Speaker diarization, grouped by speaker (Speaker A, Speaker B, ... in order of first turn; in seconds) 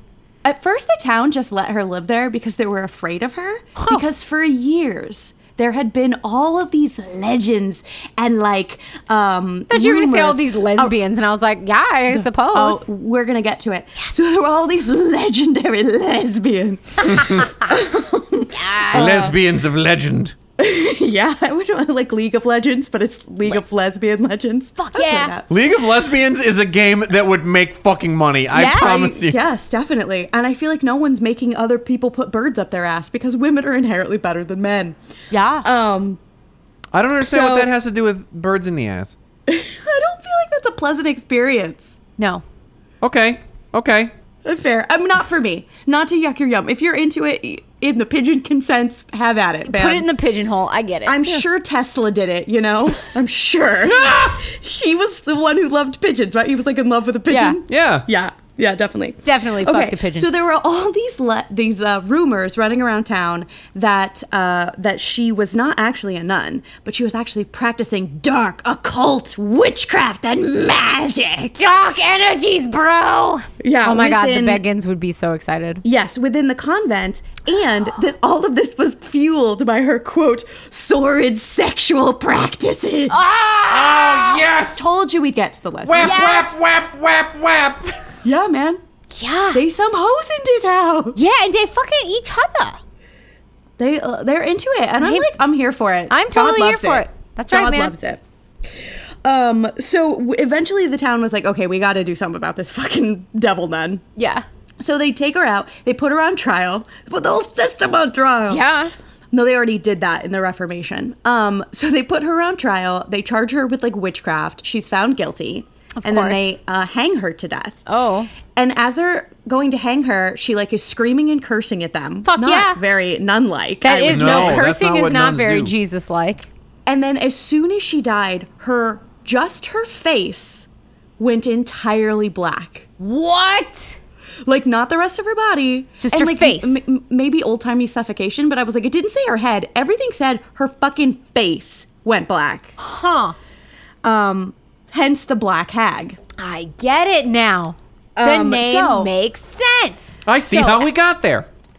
Speaker A: 0.4-10.9, 12.1-19.3, 20.6-25.5, 28.6-35.0, 35.6-36.2, 39.5-42.0, 44.4-50.1, 51.0-71.6, 73.6-74.6, 75.8-83.2, 84.7-86.4, 88.2-88.8, 89.5-91.2, 93.8-98.2, 98.8-104.0, 104.8-108.6, 109.3-117.8, 118.5-124.6, 126.8-130.7, 131.2-132.8, 134.4-142.7, 144.0-146.2, 148.2-149.1
Speaker B: 3.8-4.0, 9.7-12.8, 17.0-17.5, 18.5-19.3, 24.8-25.3, 28.5-29.0, 35.3-35.6, 37.3-37.6, 42.2-42.4, 49.6-51.4, 57.3-57.6, 59.2-60.3, 71.5-75.8, 83.1-84.4, 86.0-86.5, 89.1-89.6, 91.1-92.8, 95.0-95.3, 96.1-97.9, 104.2-104.4, 108.5-108.9, 116.0-116.5, 117.9-118.3, 122.2-122.8, 123.8-126.5, 133.0-134.0, 136.0-136.8, 142.8-143.3, 146.4-150.2
Speaker C: 18.9-20.3, 25.5-29.4, 36.9-39.1, 43.0-44.1, 53.9-54.3, 57.7-58.0, 83.7-84.8, 85.8-88.0, 124.1-125.7, 150.3-151.5